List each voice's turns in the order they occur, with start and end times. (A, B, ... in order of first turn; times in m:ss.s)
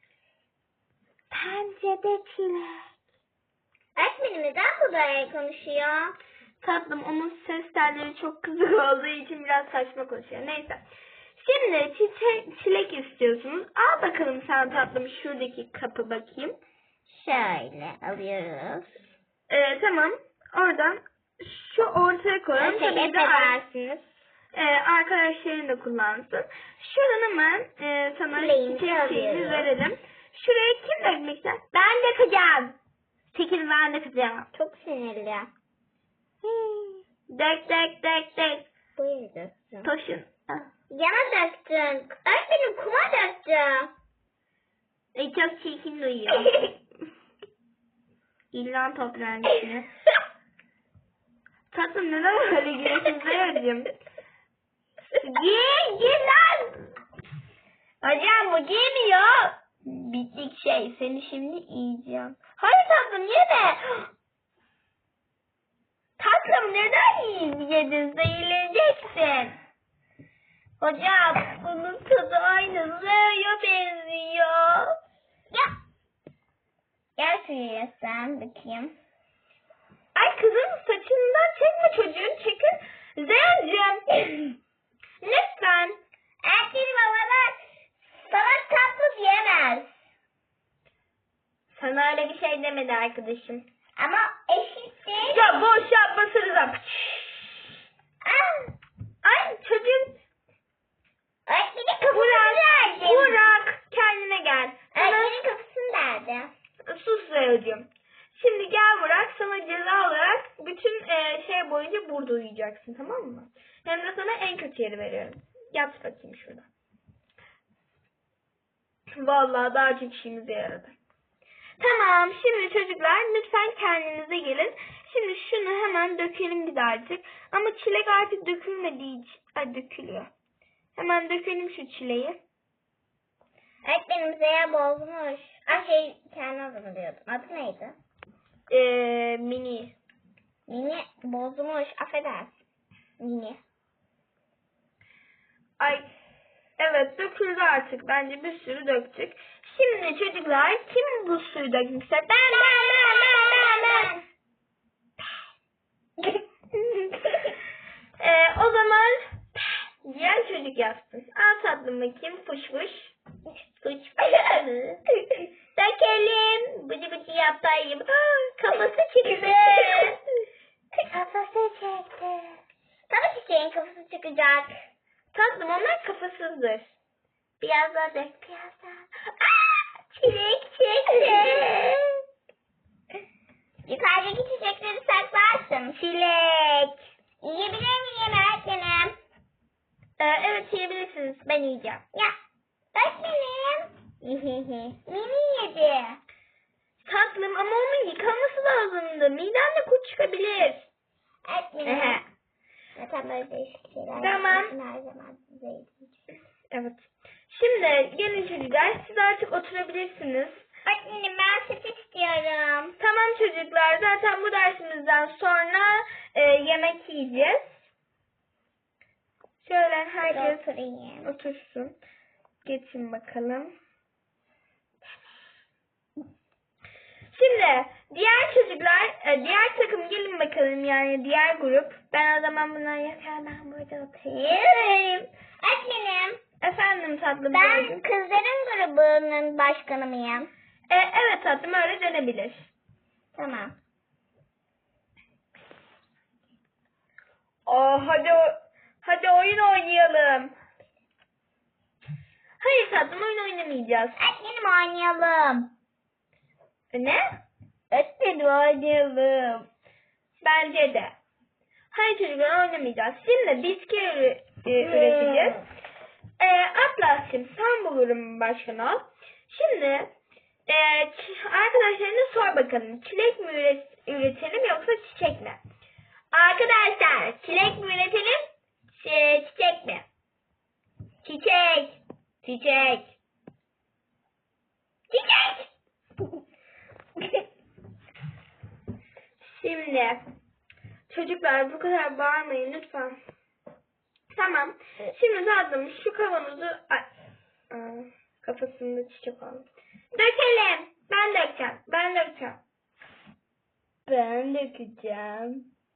0:01.3-0:02.8 A
0:04.0-0:06.2 B
0:06.6-0:10.8 A
0:11.4-0:16.6 A
0:17.1-0:19.0 B
0:19.5-0:23.6 A
0:22.6-0:24.1 B
0:24.5-0:32.7 A
0:28.3-0:29.7 B
0:32.1-0:32.7 B
0:33.3-0:34.5 A
0:34.5-0:35.5 B
0:37.3-0:38.6 A
0:39.0-0:39.9 B
0:39.8-0:40.7 A
0:40.9-0:43.9 B
0:45.2-0:46.6 A
0:48.5-0:49.9 A
0:51.7-0:53.9 A
0:55.2-0:56.7 A
0:58.0-1:04.1 A
1:06.2-1:09.6 A
1:10.8-1:15.0 A
1:17.2-1:19.0 B
1:20.2-1:24.6 A
1:25.2-1:26.0 A
1:26.4-1:27.6 B
1:28.2-1:29.9 B
1:31.7-1:33.7 A
1:34.0-1:35.6 B
1:35.2-1:37.6 A
1:38.2-1:38.8 B
1:39.2-1:40.2 A
1:41.5-1:43.4 B
1:42.1-1:45.4 A
1:44.9-1:46.5 B
1:46.9-1:56.7 A
1:59.2-2:00.9 A
2:01.8-2:10.3 A
2:11.0-2:12.4 A
2:13.8-2:18.0 B
2:18.7-2:20.0 A
2:20.7-2:22.6 B
2:23.2-2:23.6 B
2:25.8-2:26.1 A
2:26.8-2:33.8 A
2:32.3-2:34.2 B
2:38.2-2:43.2 A
2:43.8-2:44.2 A
2:44.1-2:45.0 B
2:45.8-2:48.0 B
2:47.7-2:50.2 A
2:48.8-2:50.2 B
2:51.0-2:52.3 B
2:53.1-2:54.7 B
2:55.3-2:57.0 A
2:57.6-3:02.0 B
2:57.8-2:58.4 A
3:03.9-3:09.2 B
3:10.2-3:12.0 A
3:12.9-3:16.2 B
3:17.0-3:20.9 A
3:21.4-3:22.2 B
3:21.8-3:22.2 A
3:23.0-3:26.1 B
3:24.2-3:24.8 A
3:26.7-3:30.6 A
3:30.9-3:33.0 B
3:33.0-3:37.7 A
3:39.6-3:40.6 A
3:40.2-3:41.3 B
3:41.2-3:41.9 A
3:42.6-3:43.7 A
3:47.3-3:55.3 A
3:55.6-3:56.4 B
3:56.6-3:58.0 A
3:57.5-4:00.5 B
4:00.9-4:02.7 A
4:03.4-4:03.8 B
4:07.7-4:10.5 A
4:12.6-4:14.2 A
4:14.2-4:15.7 B
4:16.9-4:17.2 A
4:17.9-4:19.7 B
4:20.4-4:21.2 A
4:21.9-4:25.6 A
4:24.8-4:25.7 B
4:26.4-4:30.1 A
4:30.7-4:35.6 A
4:36.3-4:40.0 A
4:41.2-4:43.1 A
4:45.1-4:45.7 B
4:49.4-4:50.2 A
4:51.1-4:53.2 A
4:54.3-4:57.1 A
4:57.7-4:59.7 A
5:00.2-5:00.5 B
5:00.5-5:02.6 A
5:04.1-5:05.6 B